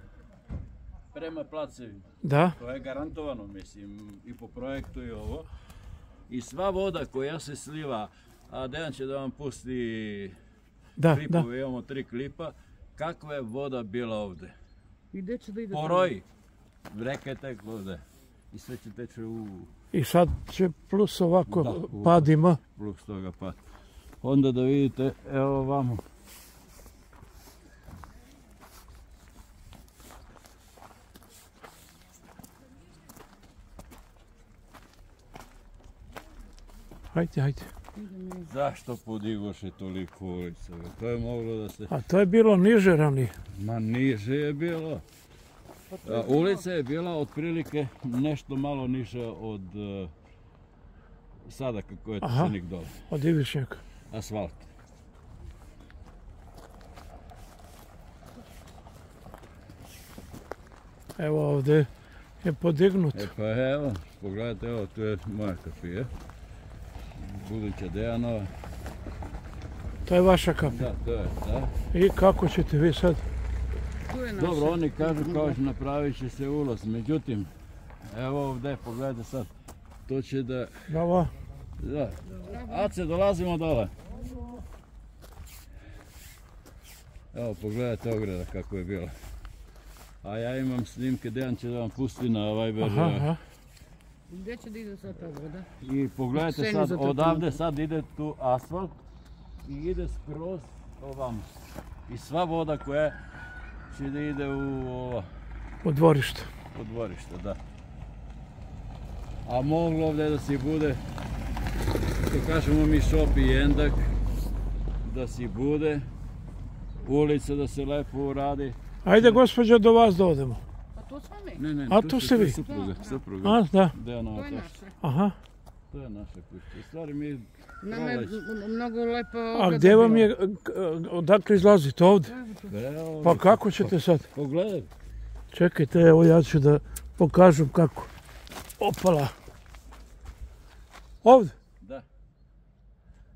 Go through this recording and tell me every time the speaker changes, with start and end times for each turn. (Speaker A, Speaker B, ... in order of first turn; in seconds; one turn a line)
Speaker A: 1.1-5.5
Speaker B: 2.2-2.5
Speaker A: 6.3-10.3
Speaker B: 11.0-11.4
Speaker A: 11.0-14.5
Speaker C: 15.1-16.1
Speaker A: 15.7-16.2
Speaker A: 16.9-19.7
Speaker B: 19.9-22.6
Speaker A: 21.5-23.6
Speaker A: 24.2-26.0
Speaker B: 37.1-37.7
Speaker C: 37.9-38.5
Speaker A: 38.5-41.9
Speaker B: 41.9-43.3
Speaker A: 43.5-45.0
Speaker C: 45.9-46.6
Speaker A: 46.0-50.1
Speaker A: 51.5-53.0
Speaker B: 52.2-52.5
Speaker B: 53.1-53.8
Speaker A: 54.1-54.6
Speaker B: 61.2-61.9
Speaker B: 62.4-63.2
Speaker A: 63.1-66.1
Speaker A: 67.1-68.5
Speaker B: 70.0-70.8
Speaker A: 70.6-71.8
Speaker B: 71.9-73.2
Speaker C: 74.0-75.6
Speaker A: 74.4-77.5
Speaker A: 78.0-79.5
Speaker A: 80.0-81.0
Speaker B: 80.9-81.3
Speaker A: 81.8-83.9
Speaker C: 82.3-82.9
Speaker A: 87.3-89.1
Speaker A: 90.2-93.3
Speaker B: 92.8-93.4
Speaker C: 94.3-95.7
Speaker A: 95.8-99.0
Speaker C: 96.3-97.6
Speaker A: 99.6-101.5
Speaker A: 102.1-103.2
Speaker A: 103.9-105.3
Speaker B: 105.8-106.5
Speaker A: 106.7-107.6
Speaker A: 109.4-111.0
Speaker A: 112.2-114.2
Speaker A: 115.0-116.1
Speaker A: 117.0-119.4
Speaker B: 119.0-120.6
Speaker C: 120.9-121.6
Speaker A: 121.6-124.7
Speaker B: 121.9-122.6
Speaker C: 122.5-123.2
Speaker B: 123.4-123.9
Speaker C: 124.3-125.0
Speaker B: 125.0-125.3
Speaker A: 125.9-128.4
Speaker C: 127.8-130.3
Speaker B: 129.5-132.3
Speaker C: 132.2-132.8
Speaker A: 132.7-134.9
Speaker B: 133.2-134.3
Speaker B: 135.5-138.1
Speaker B: 138.8-139.3
Speaker B: 141.2-141.5
Speaker A: 141.8-142.0